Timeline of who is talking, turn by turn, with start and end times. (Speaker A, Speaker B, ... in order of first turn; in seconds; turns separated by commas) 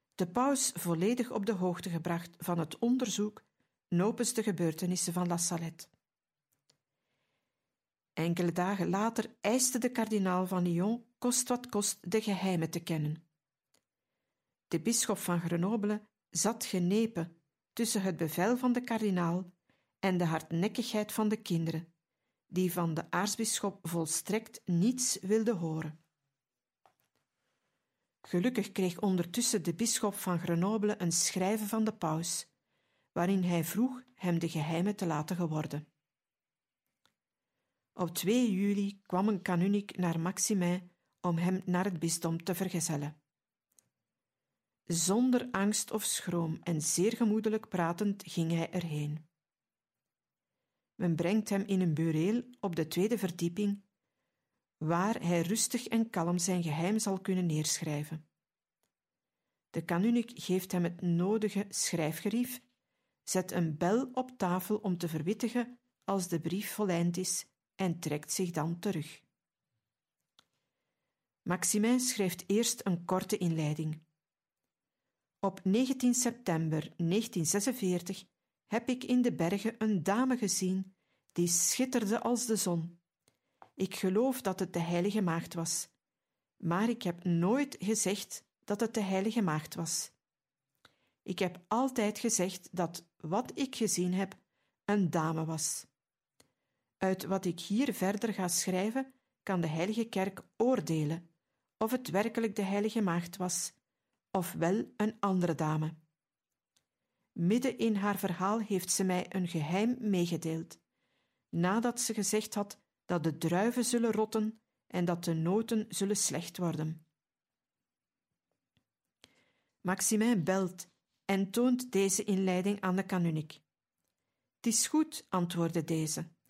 Speaker A: 0.2-5.9, Speaker A: 8.2-13.2, Speaker A: 14.7-21.9, Speaker A: 22.5-25.9, Speaker A: 28.2-32.5, Speaker A: 33.1-35.8, Speaker A: 38.0-43.1, Speaker A: 44.9-49.2, Speaker A: 51.0-53.8, Speaker A: 54.8-58.2, Speaker A: 59.7-62.6, Speaker A: 63.2-69.2, Speaker A: 71.5-74.0, Speaker A: 75.4-83.0, Speaker A: 83.8-85.9, Speaker A: 86.6-90.1, Speaker A: 91.2-95.9, Speaker A: 97.0-101.2, Speaker A: 101.8-103.7, Speaker A: 104.3-106.0, Speaker A: 107.3-110.8, Speaker A: 111.5-117.0, Speaker A: 119.8-123.6, Speaker A: 124.6-126.3